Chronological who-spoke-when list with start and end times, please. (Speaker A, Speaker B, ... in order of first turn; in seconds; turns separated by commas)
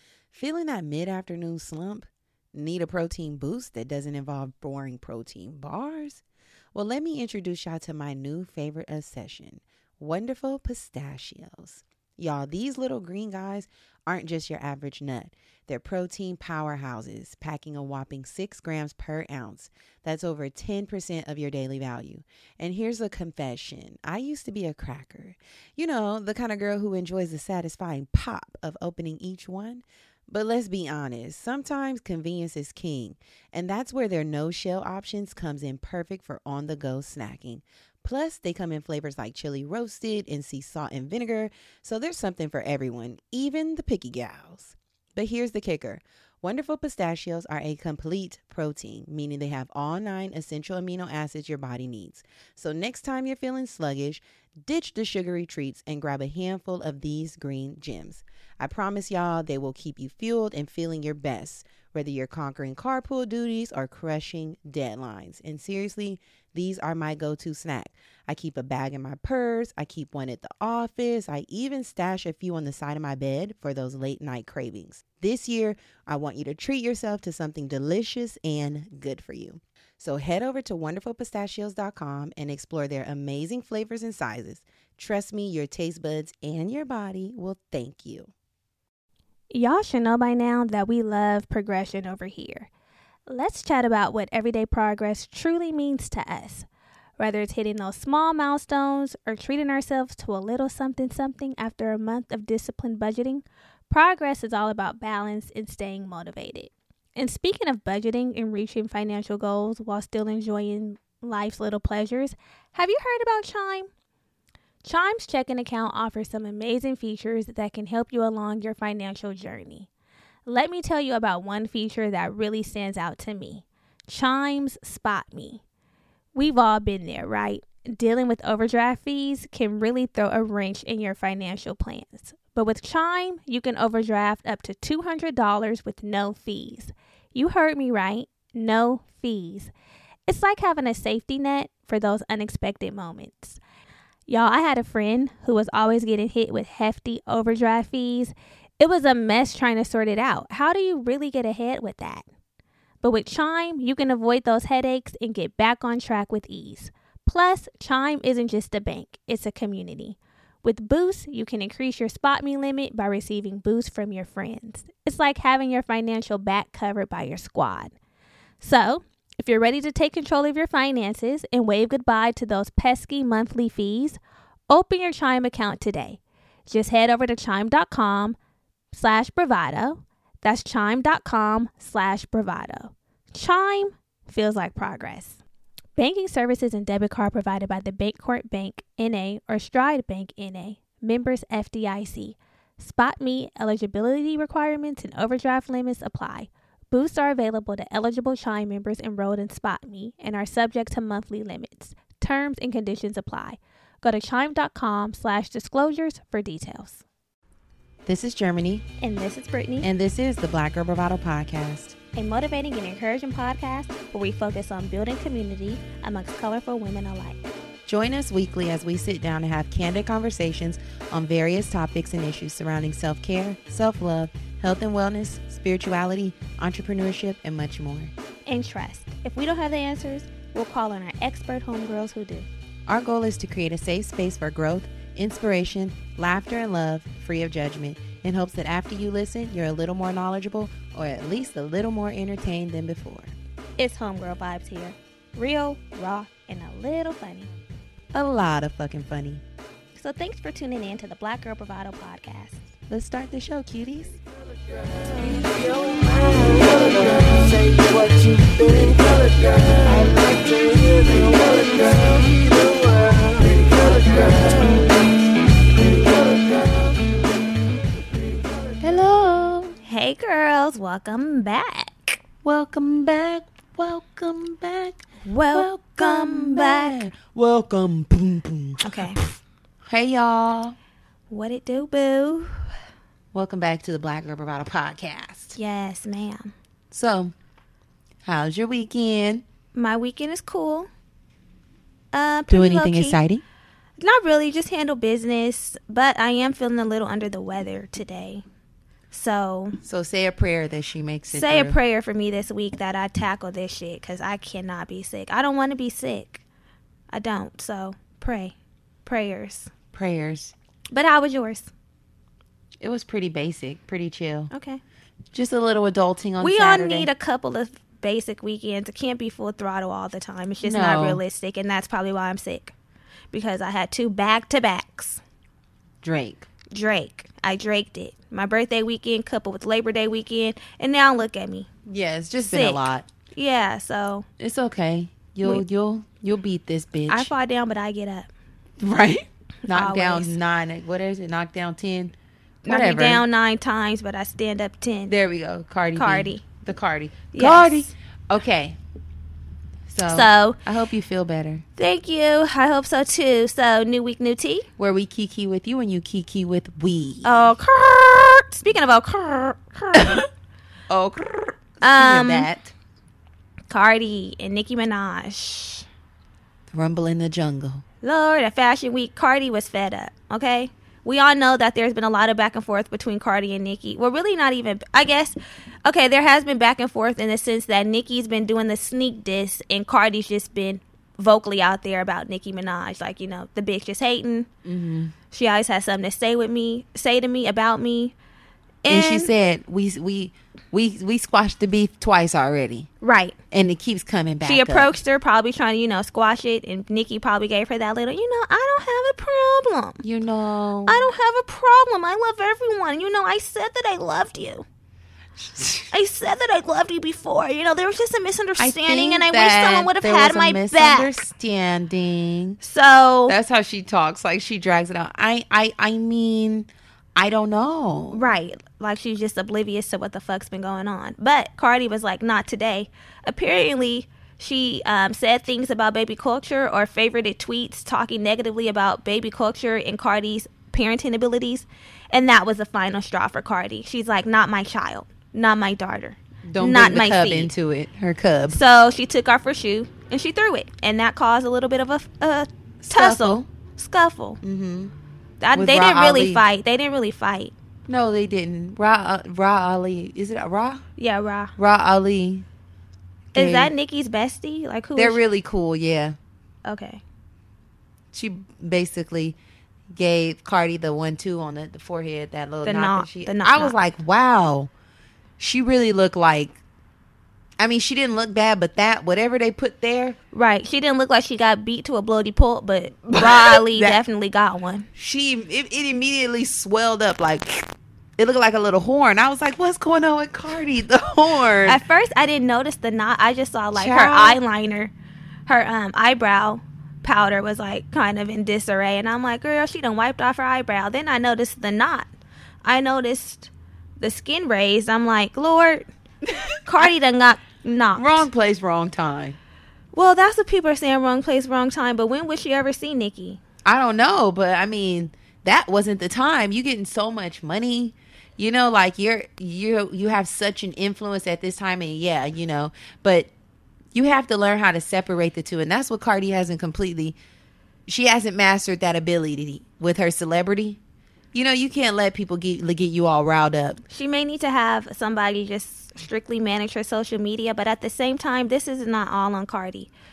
Speaker A: 0.3-6.2, Speaker A: 6.7-88.3, Speaker B: 89.5-92.7, Speaker B: 93.3-96.7, Speaker B: 97.2-113.9, Speaker B: 114.8-119.9, Speaker B: 120.5-125.6, Speaker B: 126.3-139.7, Speaker B: 140.3-143.6, Speaker B: 144.3-152.3, Speaker B: 153.0-167.9, Speaker B: 168.6-174.2, Speaker B: 174.7-178.4, Speaker B: 178.9-185.4, Speaker B: 186.0-207.0, Speaker A: 208.1-208.8, Speaker B: 209.0-209.9, Speaker A: 209.8-211.9, Speaker B: 212.2-217.5, Speaker A: 217.9-228.1, Speaker B: 228.5-232.5, Speaker A: 232.9-243.3, Speaker B: 243.8-247.5, Speaker A: 248.1-249.4, Speaker B: 249.9-252.6, Speaker A: 252.9-254.2, Speaker C: 255.6-262.0, Speaker C: 263.6-264.2, Speaker A: 268.8-269.8, Speaker B: 269.9-272.2, Speaker A: 272.4-279.3, Speaker B: 275.2-277.0, Speaker B: 278.8-279.2, Speaker A: 279.9-280.8, Speaker B: 281.3-282.7, Speaker A: 283.3-285.6, Speaker B: 285.6-286.5, Speaker A: 286.9-287.3, Speaker A: 288.3-289.4, Speaker B: 289.7-290.9, Speaker B: 292.1-293.2, Speaker A: 292.5-293.4, Speaker B: 294.0-298.4, Speaker B: 299.1-299.8, Speaker A: 299.8-301.8, Speaker B: 301.3-306.4, Speaker B: 307.1-309.7, Speaker A: 309.9-310.5, Speaker B: 310.9-311.7, Speaker A: 312.8-314.5, Speaker B: 314.5-314.8, Speaker A: 315.3-317.1, Speaker B: 316.4-322.7, Speaker A: 320.6-321.2, Speaker B: 323.3-325.2, Speaker A: 326.0-326.5, Speaker B: 326.7-331.7, Speaker A: 331.9-333.1, Speaker B: 332.5-332.8, Speaker B: 333.4-334.3, Speaker A: 334.4-337.3, Speaker B: 337.1-338.3, Speaker A: 338.8-342.1, Speaker B: 339.6-340.4, Speaker B: 342.6-345.1, Speaker A: 342.7-343.2, Speaker A: 345.1-348.8, Speaker B: 345.9-346.4, Speaker B: 347.3-347.9, Speaker A: 349.9-351.6, Speaker B: 350.0-350.6, Speaker B: 351.8-354.7, Speaker A: 354.8-357.5, Speaker B: 357.2-360.2, Speaker A: 360.0-360.2, Speaker A: 360.9-362.7, Speaker B: 361.8-362.5, Speaker B: 363.7-365.9, Speaker A: 366.7-367.8, Speaker B: 368.0-384.5, Speaker A: 384.6-385.1, Speaker B: 385.3-388.1, Speaker B: 388.8-389.3, Speaker A: 388.9-392.9, Speaker B: 393.0-393.4, Speaker A: 393.5-395.0, Speaker B: 394.4-400.0, Speaker A: 400.0-401.1, Speaker B: 400.9-404.6, Speaker A: 405.4-405.9, Speaker B: 405.9-411.2, Speaker A: 408.6-412.6, Speaker B: 412.6-413.4, Speaker A: 413.3-418.2, Speaker B: 418.1-437.5, Speaker A: 436.5-438.6, Speaker B: 438.5-444.4, Speaker A: 442.8-443.5, Speaker A: 444.4-444.9, Speaker B: 445.4-447.5, Speaker A: 445.5-446.4, Speaker A: 447.9-450.8, Speaker B: 451.0-451.5, Speaker A: 451.6-452.4, Speaker A: 453.4-453.7, Speaker B: 453.4-455.2, Speaker A: 455.0-456.2, Speaker B: 456.6-457.0, Speaker A: 458.1-459.4, Speaker A: 459.9-464.7, Speaker B: 462.6-463.8, Speaker A: 465.4-466.6, Speaker A: 467.6-470.2, Speaker B: 470.3-474.9, Speaker A: 473.1-474.0, Speaker A: 474.9-481.8, Speaker B: 481.7-484.9, Speaker A: 483.7-484.4, Speaker B: 485.5-492.1, Speaker B: 492.6-495.8, Speaker A: 496.4-496.9, Speaker B: 496.7-498.3, Speaker A: 497.9-499.4, Speaker B: 499.9-503.4, Speaker A: 503.6-513.3, Speaker A: 513.9-517.2, Speaker A: 517.9-520.8, Speaker A: 521.3-523.8, Speaker B: 523.9-529.9